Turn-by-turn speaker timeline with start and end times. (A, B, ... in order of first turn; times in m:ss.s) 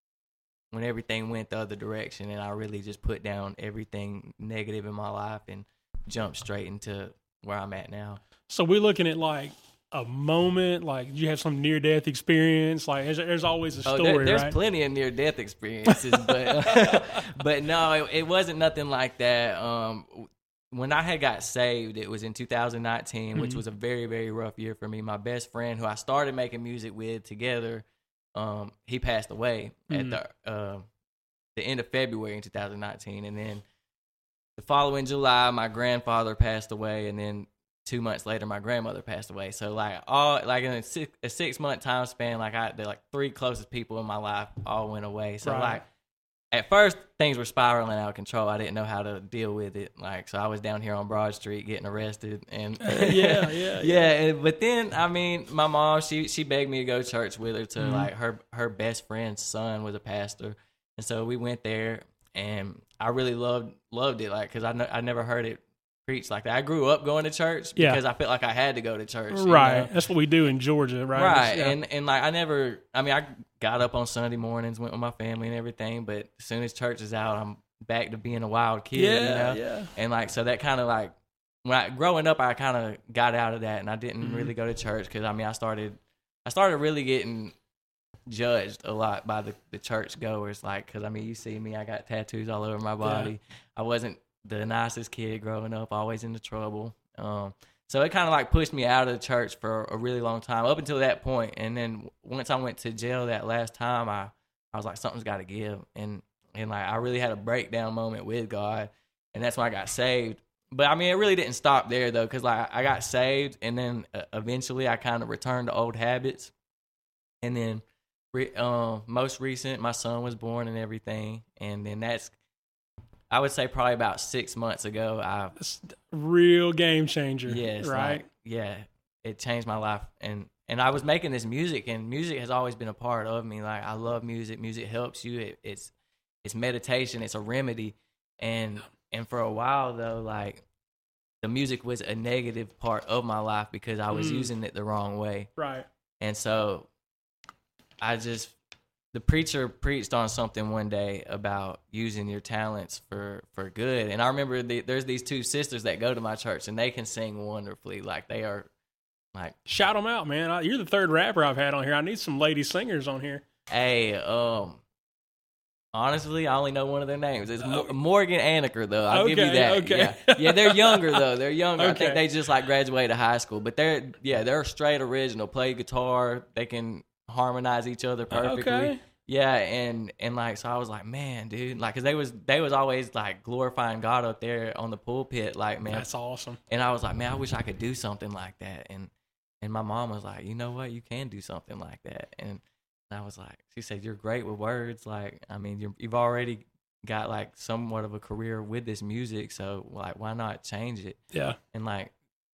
0:00.7-0:08.2 A
0:08.5-0:14.6 B
0:13.9-0:27.8 A
0:28.4-0:30.9 A
0:29.9-0:30.2 B
0:31.6-0:33.6 A
0:34.6-0:45.8 A
0:45.4-0:45.8 B
0:46.5-1:09.9 A
0:52.8-0:54.0 B
0:57.8-0:58.1 B
1:09.3-1:11.8 B
1:11.1-1:27.6 A
1:19.0-1:19.9 B
1:24.2-1:24.5 B
1:28.3-1:56.5 A
1:33.0-1:33.3 B
1:57.4-2:02.4 A
2:03.3-2:05.6 A
2:05.6-2:08.2 B
2:07.5-2:15.9 A
2:16.4-2:20.6 A
2:21.4-2:25.5 A
2:24.1-2:24.5 B
2:25.6-2:25.9 B
2:26.2-2:26.9 A
2:28.0-2:28.6 A
2:29.1-2:38.7 A
2:39.7-2:43.4 B
2:43.7-2:44.8 A
2:45.9-3:06.1 A
2:47.6-2:47.9 B
2:49.1-2:51.2 B
2:51.8-2:52.2 B
2:58.3-2:59.0 B
3:05.9-3:06.6 B
3:06.7-3:09.1 A
3:09.6-3:21.2 A
3:21.3-3:21.6 B
3:21.7-3:22.1 A